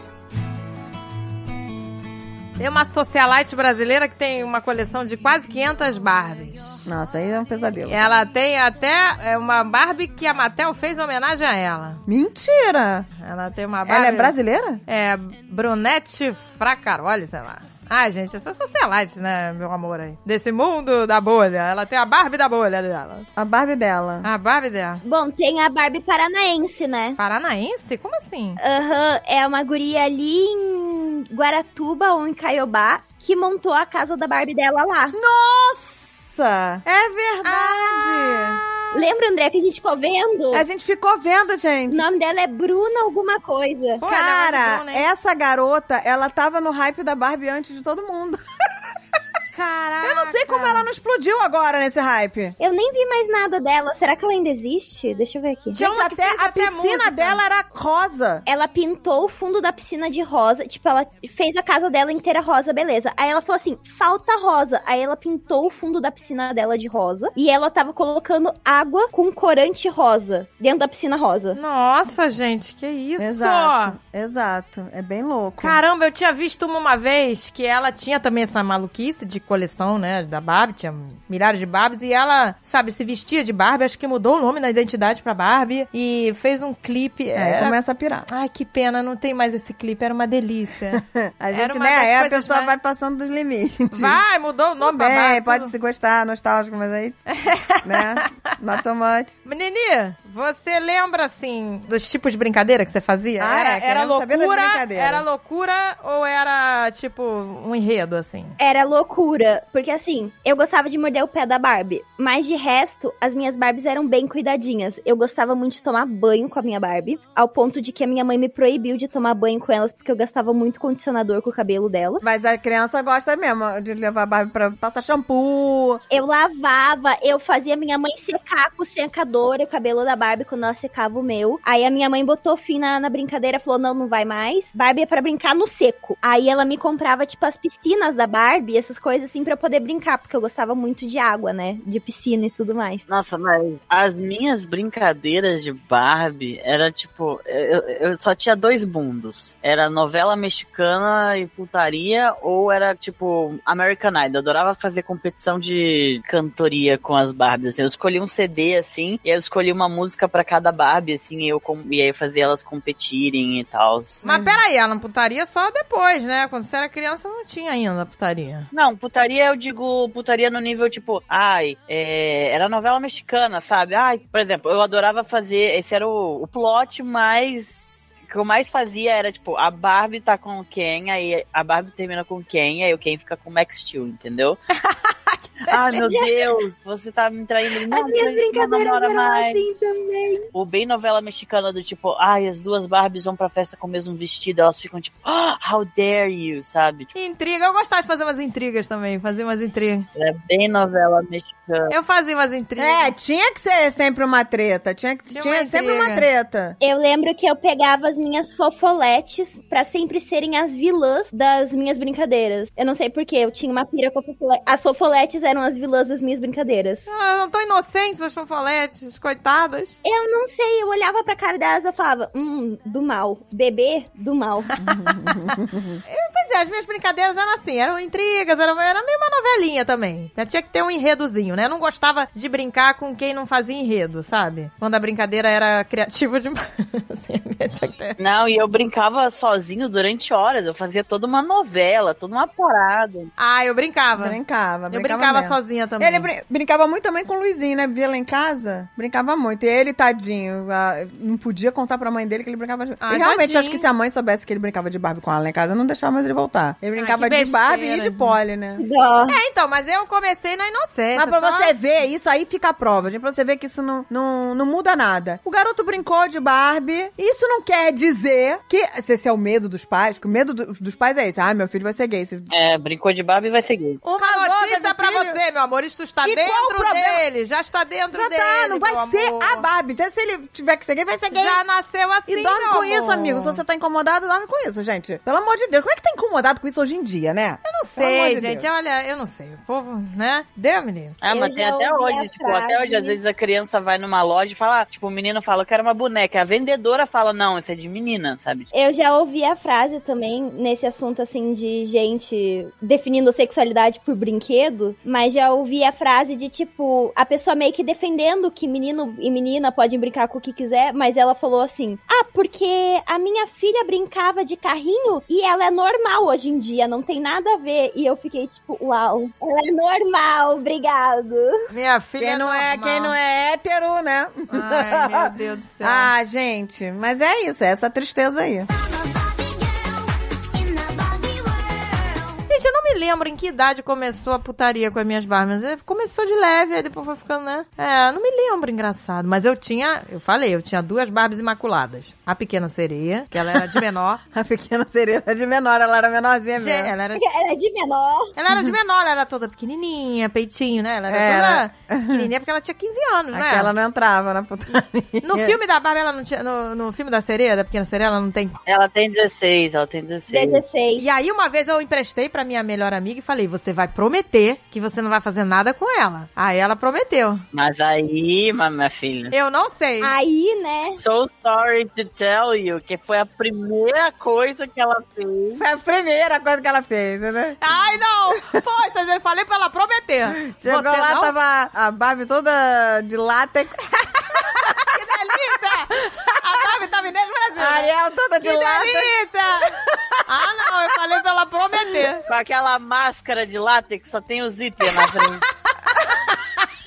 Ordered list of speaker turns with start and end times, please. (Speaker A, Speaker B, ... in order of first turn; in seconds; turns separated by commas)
Speaker A: 2.6-6.7, Speaker B: 6.8-8.1, Speaker A: 7.9-12.0, Speaker B: 12.1-13.1, Speaker A: 13.2-14.3, Speaker B: 13.8-14.8, Speaker A: 14.9-23.2, Speaker B: 23.4-24.3, Speaker A: 24.2-25.0, Speaker C: 25.0-27.2, Speaker A: 27.2-28.6, Speaker C: 28.6-35.2, Speaker B: 35.1-38.6, Speaker A: 37.4-38.9, Speaker C: 38.9-40.6, Speaker B: 40.5-42.0, Speaker C: 41.9-44.0, Speaker A: 44.0-45.0, Speaker B: 44.0-48.4, Speaker A: 49.5-50.9, Speaker B: 50.0-52.5, Speaker C: 52.6-55.8, Speaker A: 55.7-57.4, Speaker B: 55.7-58.4, Speaker C: 58.5-71.6, Speaker A: 71.5-74.0, Speaker B: 73.2-75.8, Speaker A: 75.6-87.8, Speaker B: 87.3-88.3, Speaker A: 88.3-91.0, Speaker B: 90.9-94.2, Speaker A: 91.5-92.7, Speaker A: 93.9-95.7, Speaker B: 94.8-97.2, Speaker A: 97.3-98.2, Speaker B: 97.8-99.3, Speaker A: 99.5-108.6, Speaker B: 103.4-105.2, Speaker C: 108.6-122.2, Speaker B: 122.2-126.0, Speaker C: 126.1-143.0, Speaker D: 143.1-164.5, Speaker A: 164.2-168.7, Speaker D: 168.7-184.6, Speaker A: 184.8-185.7, Speaker D: 185.7-189.6, Speaker C: 185.9-186.5, Speaker C: 187.9-190.5, Speaker D: 190.5-197.1, Speaker A: 197.1-200.1, Speaker D: 200.1-201.9, Speaker A: 201.9-203.1, Speaker B: 202.8-206.8, Speaker A: 205.3-206.2, Speaker C: 206.8-217.1, Speaker A: 217.1-220.0, Speaker C: 220.0-224.7, Speaker B: 224.8-226.0, Speaker A: 224.9-225.5, Speaker A: 226.1-238.2, Speaker D: 238.2-243.3, Speaker A: 243.4-244.4, Speaker B: 244.2-258.8, Speaker A: 244.9-246.3, Speaker A: 253.0-253.9, Speaker A: 257.0-258.4, Speaker C: 258.8-259.4, Speaker A: 259.3-261.7, Speaker B: 261.1-272.5, Speaker D: 272.5-274.0, Speaker A: 274.0-279.7, Speaker B: 274.2-275.4, Speaker B: 276.2-277.2, Speaker B: 278.1-281.6, Speaker A: 281.3-283.6, Speaker B: 282.3-288.7, Speaker A: 287.6-291.2, Speaker D: 291.2-298.7, Speaker C: 291.3-293.2, Speaker C: 298.7-321.7, Speaker A: 321.7-323.1, Speaker B: 322.2-328.7, Speaker A: 324.5-326.1, Speaker E: 328.7-332.4, Speaker A: 332.5-344.2, Speaker B: 343.4-343.8, Speaker B: 344.3-346.9, Speaker A: 346.6-347.2, Speaker C: 347.1-348.3, Speaker A: 348.4-353.7, Speaker B: 351.1-352.3, Speaker B: 353.3-355.6, Speaker A: 355.2-358.6, Speaker D: 358.6-360.6, Speaker C: 360.3-361.0, Speaker A: 361.0-367.4, Speaker D: 367.5-369.3, Speaker A: 369.3-370.1, Speaker C: 370.0-371.0, Speaker D: 370.9-375.6, Speaker B: 375.6-377.9, Speaker A: 377.6-381.3, Speaker B: 380.4-384.7, Speaker A: 384.3-392.2, Speaker B: 387.6-390.2, Speaker D: 392.3-395.5, Speaker B: 394.9-396.4